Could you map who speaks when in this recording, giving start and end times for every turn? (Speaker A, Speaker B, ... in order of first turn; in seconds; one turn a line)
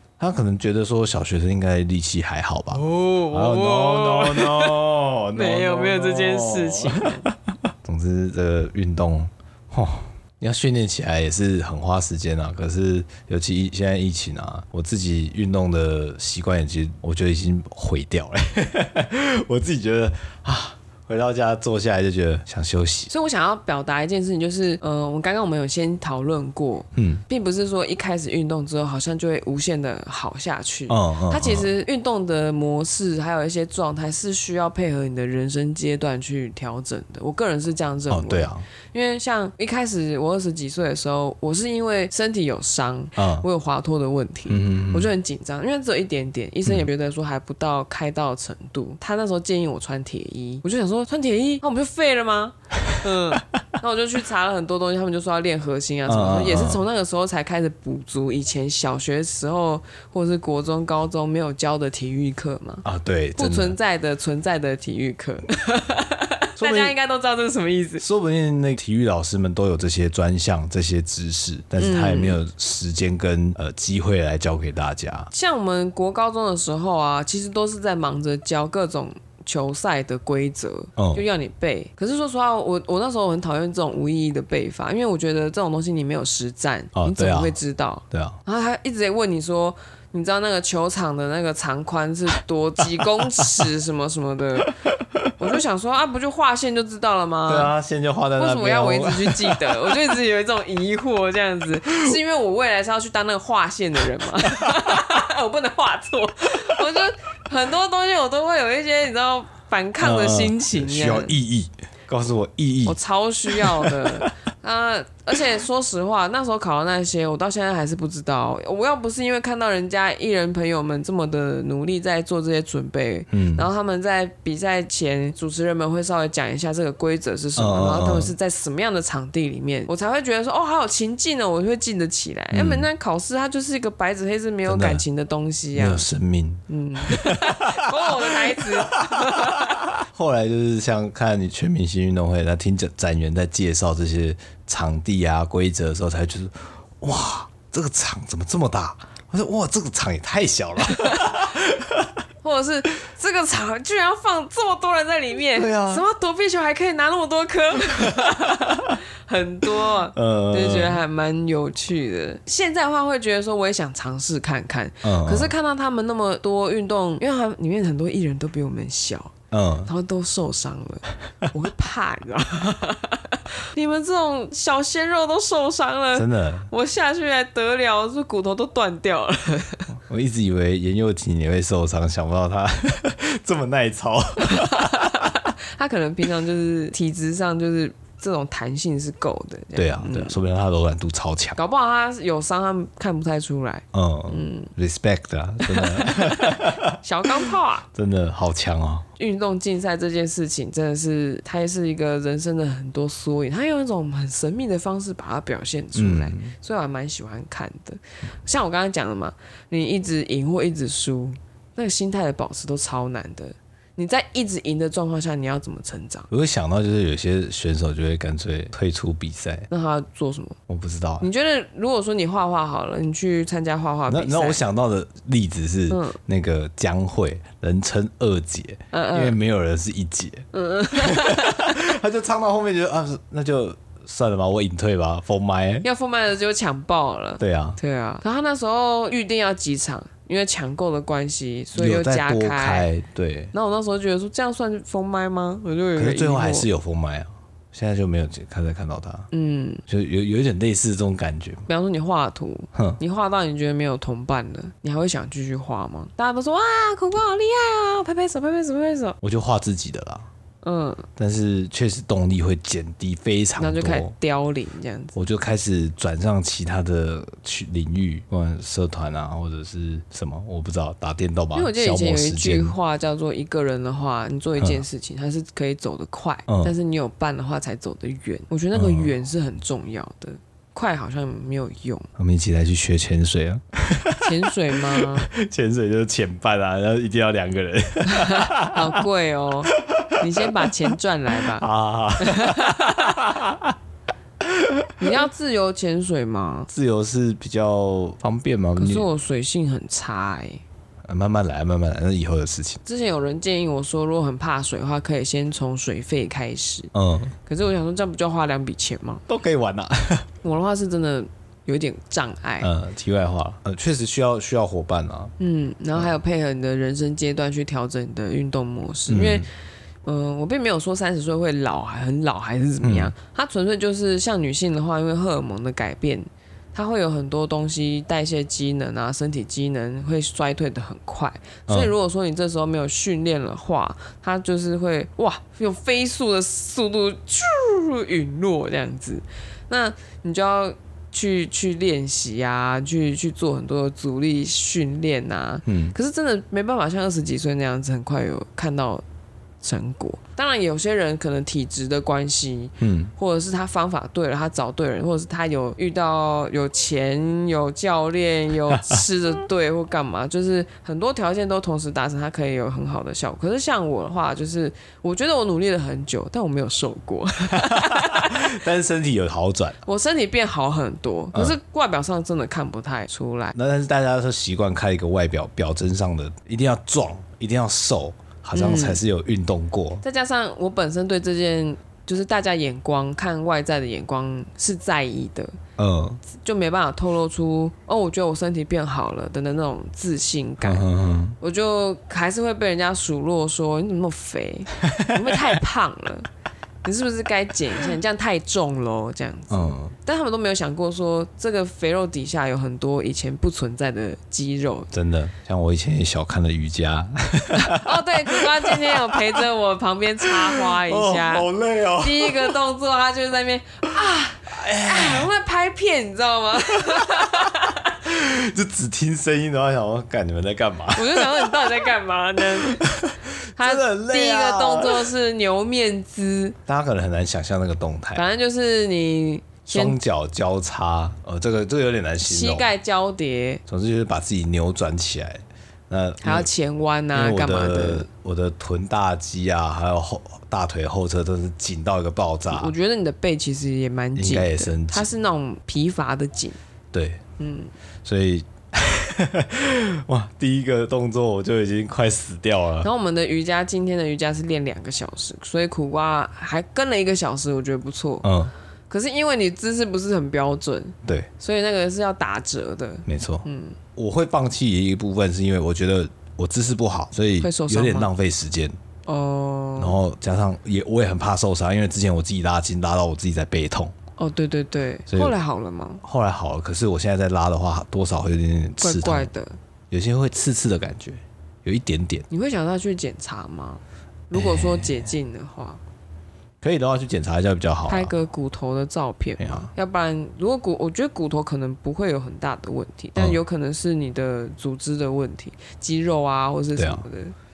Speaker A: 0.2-23.1
Speaker B: 2.7-4.8
Speaker B: 5.3-7.3
Speaker B: 23.1-62.9
Speaker A: 26.9-27.2
Speaker A: 30.9-31.7
Speaker A: 38.1-38.7
Speaker A: 43.2-43.5
Speaker A: 44.5-45.1
Speaker A: 56.1-56.8
Speaker A: 62.8-63.8
Speaker B: 63.4-68.0
Speaker A: 66.6-67.0
Speaker A: 68.0-75.3
Speaker B: 71.8-72.4
Speaker B: 75.3-94.7
Speaker A: 81.0-81.2
Speaker A: 87.0-87.6
Speaker A: 88.1-88.4
Speaker B: 95.4-97.7
Speaker A: 97.5-100.1
Speaker B: 98.4-111.3
Speaker A: 110.0-114.2
Speaker B: 112.9-136.1
Speaker A: 123.3-123.7
Speaker A: 127.6-128.3
Speaker A: 132.5-132.9
Speaker A: 134.7-135.0
Speaker A: 135.8-152.2
Speaker B: 136.7-139.8
Speaker B: 150.9-151.3
Speaker B: 152.4-169.3
Speaker A: 155.5-156.1
Speaker A: 160.1-161.0
Speaker A: 165.0-165.5
Speaker A: 169.5-169.9
Speaker B: 169.9-179.9
Speaker A: 176.2-176.7
Speaker A: 180.1-185.3
Speaker B: 184.5-190.4
Speaker A: 189.8-191.6
Speaker B: 191.6-194.7
Speaker A: 193.9-197.0
Speaker B: 195.6-197.9
Speaker A: 197.9-199.1
Speaker B: 199.2-216.3
Speaker A: 205.9-206.5
Speaker A: 216.3-219.7
Speaker B: 219.7-220.6
Speaker A: 220.7-221.3
Speaker B: 221.2-224.6
Speaker A: 224.1-235.9
Speaker B: 225.9-226.2
Speaker B: 228.9-229.4
Speaker B: 230.5-231.8
Speaker B: 235.8-242.9
Speaker A: 237.4-237.8
Speaker A: 241.7-243.5
Speaker B: 243.5-246.7
Speaker A: 245.9-249.3
Speaker B: 249.3-249.8
Speaker A: 249.9-251.7
Speaker B: 251.7-259.2
Speaker A: 252.8-253.0
Speaker A: 259.2-260.3
Speaker B: 260.6-261.1
Speaker A: 261.2-264.1
Speaker B: 263.6-265.2
Speaker A: 265.1-272.8
Speaker B: 271.5-282.1
Speaker A: 276.5-276.7
Speaker A: 278.7-279.1
Speaker A: 282.2-289.0
Speaker B: 284.2-285.3
Speaker B: 288.1-291.6
Speaker A: 289.7-290.7
Speaker A: 291.4-293.8
Speaker B: 292.2-293.2
Speaker A: 294.4-295.1
Speaker B: 295.0-296.7
Speaker A: 296.7-299.1
Speaker B: 298.8-300.6
Speaker A: 301.1-302.8
Speaker B: 302.9-306.9
Speaker A: 306.9-307.4
Speaker B: 307.5-309.2
Speaker A: 309.3-310.3
Speaker B: 310.4-312.7
Speaker A: 312.6-315.3
Speaker B: 315.4-319.5
Speaker A: 319.1-319.5
Speaker B: 320.1-349.0
Speaker A: 322.8-323.1
Speaker A: 345.7-345.9
Speaker B: 349.6-368.6
Speaker A: 352.8-353.1
Speaker A: 367.6-369.8
Speaker B: 369.9-373.6
Speaker A: 373.5-380.0
Speaker B: 378.5-379.0
Speaker B: 380.0-385.6
Speaker A: 385.8-386.2
Speaker B: 386.2-390.9
Speaker A: 390.6-391.4
Speaker B: 391.4-396.3
Speaker B: 396.8-404.9
Speaker A: 399.5-399.9
Speaker A: 404.9-409.5
Speaker B: 407.7-411.5
Speaker A: 410.2-412.6
Speaker B: 412.0-417.9
Speaker A: 414.5-415.3
Speaker A: 416.9-421.9
Speaker B: 420.9-422.9
Speaker A: 422.4-425.1
Speaker B: 423.6-426.6
Speaker A: 426.7-428.2
Speaker B: 428.1-430.0
Speaker A: 429.7-432.7
Speaker B: 432.2-433.6
Speaker A: 433.7-436.5
Speaker B: 436.2-438.1
Speaker A: 437.1-442.8
Speaker B: 442.5-446.6
Speaker A: 444.2-445.1
Speaker A: 446.9-447.2
Speaker B: 447.4-447.7
Speaker A: 448.1-452.9
Speaker B: 452.8-458.3
Speaker A: 458.2-458.5
Speaker B: 458.9-463.8
Speaker A: 463.1-468.8
Speaker B: 467.4-468.1
Speaker B: 469.1-470.0
Speaker A: 469.8-473.9
Speaker B: 474.2-476.0
Speaker A: 475.1-475.3
Speaker A: 476.0-479.3
Speaker B: 478.8-479.6
Speaker A: 479.9-482.3
Speaker B: 482.3-485.8
Speaker A: 484.3-485.1
Speaker A: 486.6-488.1
Speaker B: 487.9-497.3
Speaker A: 489.4-489.7
Speaker A: 496.8-497.1